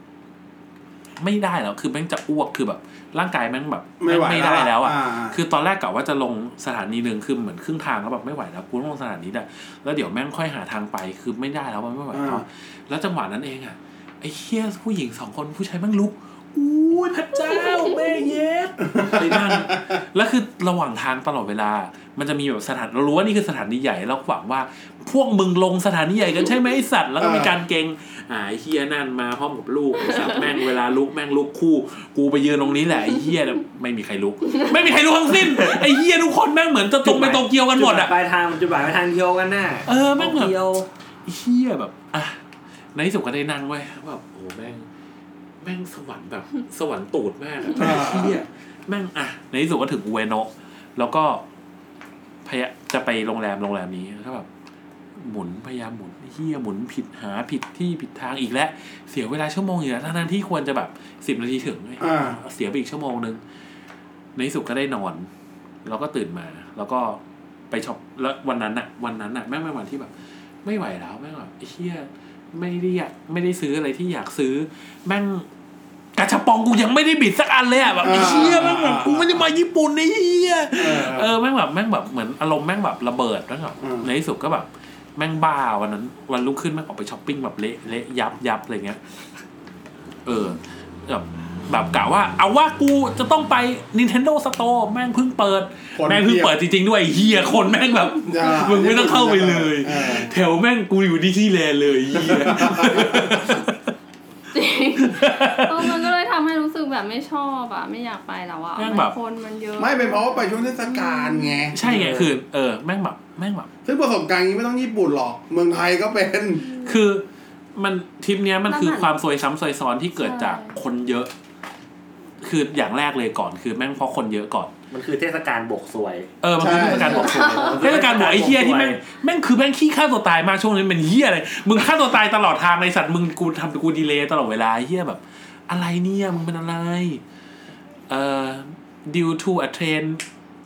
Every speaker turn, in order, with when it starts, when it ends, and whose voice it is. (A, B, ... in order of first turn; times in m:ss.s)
0:01.2-0:38.1 A
0:04.0-0:05.4 B
0:12.1-0:12.4 B
0:19.0-0:19.6 B
0:27.2-0:27.5 B
0:37.0-0:40.9 C
0:39.8-0:40.5 A
0:41.2-0:42.4 A
0:42.9-0:44.9 A
0:45.6-0:51.4 A
0:47.7-0:48.4 B
0:52.4-0:54.5 A
0:55.2-1:03.4 A
1:02.0-1:02.4 B
1:04.4-1:05.3 A
1:05.8-1:07.2 A
1:07.7-1:10.1 A
1:10.6-1:15.4 A
1:16.2-1:29.0 A
1:18.0-1:19.4 B
1:20.7-1:21.3 B
1:23.8-1:24.1 B
1:30.2-1:43.8 A
1:36.0-1:36.5 B
1:38.3-1:40.3 B
1:42.2-1:43.1 B
1:44.5-1:51.6 D
1:45.0-1:46.0 A
1:48.8-1:49.1 A
1:49.8-1:51.8 B
1:51.7-1:53.7 A
1:51.8-1:52.3 C
1:53.8-1:56.6 B
1:56.8-1:57.2 A
1:57.7-2:01.3 A
1:58.7-1:59.1 D
2:00.2-2:00.7 D
2:02.4-2:04.7 A
2:04.9-2:09.0 C
2:06.4-2:17.2 A
2:06.6-2:07.3 B
2:07.2-2:07.8 D
2:18.1-2:20.2 A